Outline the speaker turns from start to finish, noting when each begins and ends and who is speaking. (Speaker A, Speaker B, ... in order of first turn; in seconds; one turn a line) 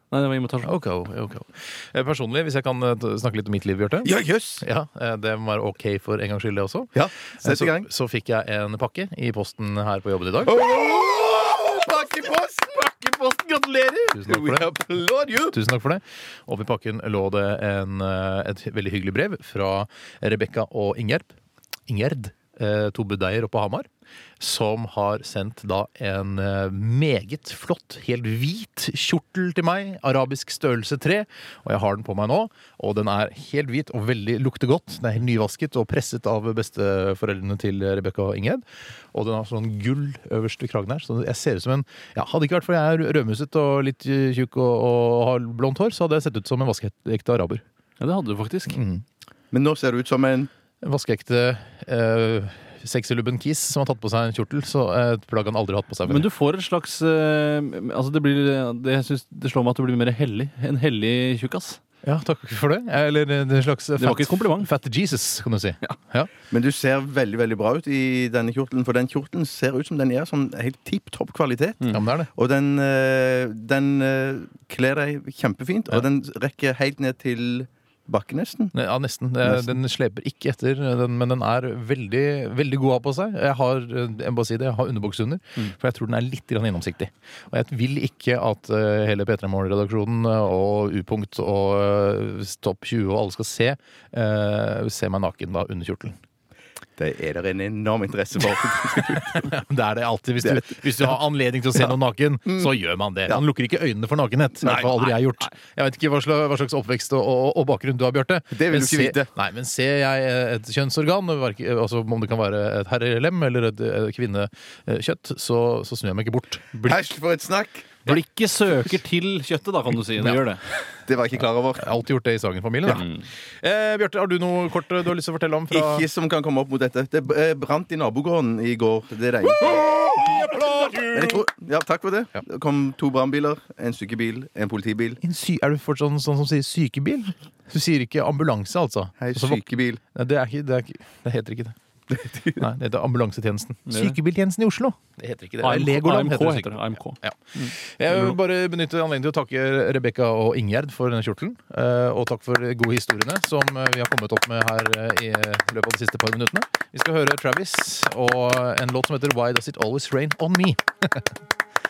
Speaker A: 0.1-0.7
Speaker B: 0.6-10.7
Speaker C: 4.0-4.6
Speaker C: 6.9-7.9
Speaker C: 10.4-15.6
Speaker B: 14.1-14.7
Speaker B: 15.5-21.3
Speaker B: 21.9-23.9
Speaker B: 24.4-38.6
Speaker B: 39.1-47.6
Speaker A: 48.0-48.8
Speaker B: 48.7-49.0
Speaker C: 49.5-50.5
Speaker B: 50.8-56.3
Speaker A: 56.0-61.8
Speaker B: 62.0-66.3
Speaker A: 64.0-64.7
Speaker C: 66.5-78.7
Speaker B: 71.9-72.3
Speaker B: 78.7-96.1
Speaker C: 79.4-79.7
Speaker C: 97.0-99.5
Speaker B: 99.2-116.9
Speaker C: 104.6-104.9
Speaker C: 108.5-109.3
Speaker C: 116.8-117.9
Speaker A: 118.0-120.6
Speaker B: 120.2-120.5
Speaker C: 121.0-122.0
Speaker B: 121.7-126.0
Speaker A: 122.9-123.2
Speaker C: 125.7-129.9
Speaker B: 129.6-131.4
Speaker C: 131.1-135.2
Speaker B: 135.2-139.6
Speaker C: 139.2-140.0
Speaker B: 140.1-141.7
Speaker C: 142.1-142.6
Speaker B: 142.6-161.2
Speaker A: 143.9-144.2
Speaker A: 145.6-147.7